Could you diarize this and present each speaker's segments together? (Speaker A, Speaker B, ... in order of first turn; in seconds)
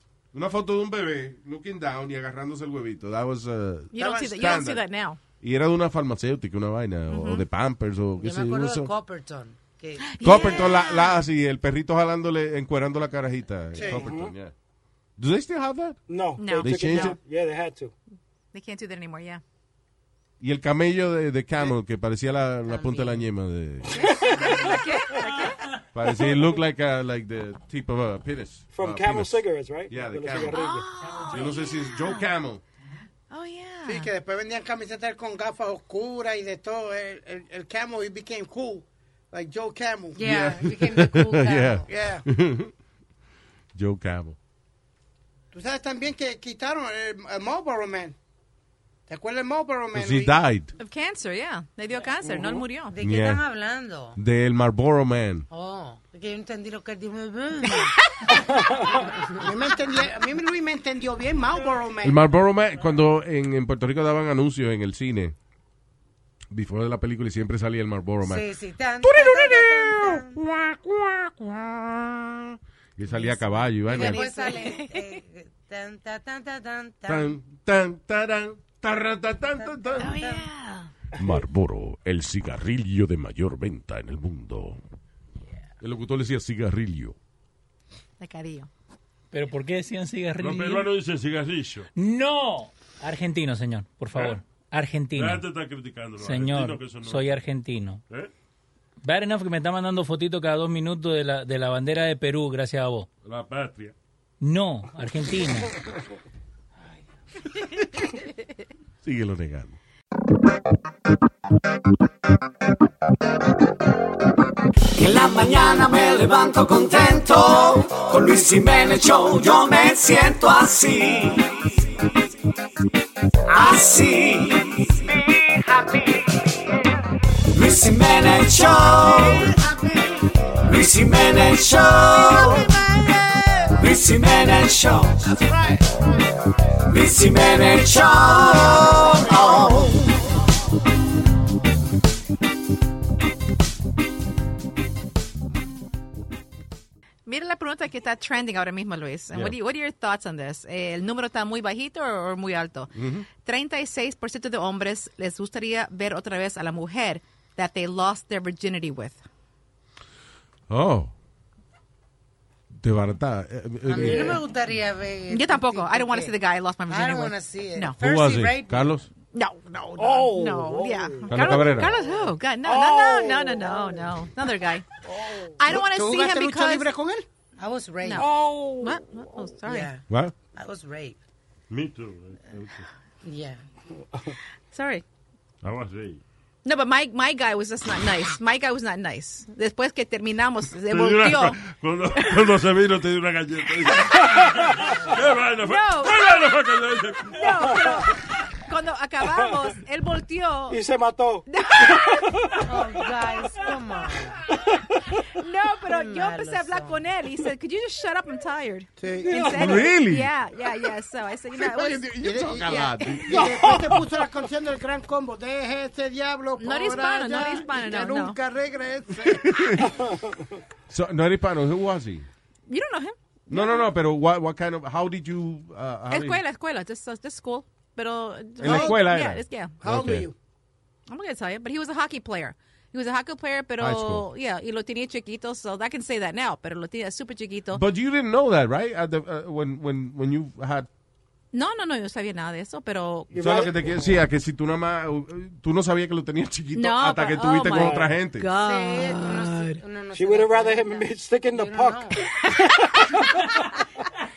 Speaker A: 0.3-4.8, 5.4-8.9, 10.2-14.5, 15.2-17.2, 20.4-24.2, 25.9-30.7, 31.2-32.6, 40.3-42.7, 43.8-44.4, 49.9-50.7, 53.0-53.4, 54.2-55.5, 62.0-65.3, 66.5-68.5, 69.0-74.3, 77.1-80.2, 81.2-84.8, 85.8-87.2, 109.0-109.8, 152.9-153.3, 160.7-161.1, 162.7-164.4, 168.0-169.1, 171.3-171.9, 180.1-180.3, 209.4-210.3, 211.5-213.6, 219.2-220.0, 220.9-222.3, 223.5-226.4, 228.6-230.3, 233.8-234.3, 237.7-240.9, 243.3-248.5
Speaker B: 3.9-5.2, 7.1-7.4, 10.0-11.2, 16.4-17.2, 18.5-19.4, 24.0-25.8, 30.5-32.3, 33.3-34.1, 50.8-52.9, 73.9-75.2, 80.0-80.9, 88.2-88.7, 147.3-159.2, 165.3-168.0, 169.3-174.9, 175.6-176.9, 178.0-179.9, 184.7-185.0, 186.6-191.6, 195.6-196.3, 197.3-200.8, 201.5-202.4, 205.3-212.2, 213.0-213.3, 216.6-218.4, 222.7-223.8, 226.1-229.8, 231.1-237.8, 241.5-243.4, 246.8-249.5, 252.2-253.3
Speaker C: 4.0-4.6, 13.7-14.1, 33.9-40.6, 41.9-42.2, 45.5-48.2, 49.1-50.4, 59.4-62.2, 129.1-130.3, 132.4-133.5, 135.4-135.8, 139.2-140.0, 175.7-177.2, 209.0-209.5, 212.2-219.9, 228.6-229.0, 229.8-230.3
Speaker D: 8.2-10.7, 22.7-23.2, 40.2-41.9, 52.9-54.2, 55.5-57.9, 59.0-59.5, 68.2-70.4, 73.1-77.4, 79.6-80.5, 163.9-166.3, 166.9-169.0, 177.6-178.3, 179.6-180.0, 180.5-181.2, 183.2-183.6, 202.6-204.4, 205.9-207.1, 248.6-252.2
Speaker E: 13.9-14.3, 16.1-17.9, 28.8-30.9, 170.0-174.1, 175.1-175.5, 178.2-179.0, 200.7-201.4, 209.3-209.9, 243.3-243.8, 247.7-248.1, 250.2-252.2
Speaker F: 89.3-90.9, 92.0-95.4, 96.2-98.0, 99.0-103.1, 104.4-105.7
Speaker G: 90.4-91.9, 95.2-97.3, 103.2-103.9, 181.7-182.9, 185.6-186.2, 190.9-197.8
Speaker H: 115.0-121.7, 123.5-125.2, 127.5-129.5, 130.7-132.8, 133.8-135.3, 136.9-140.0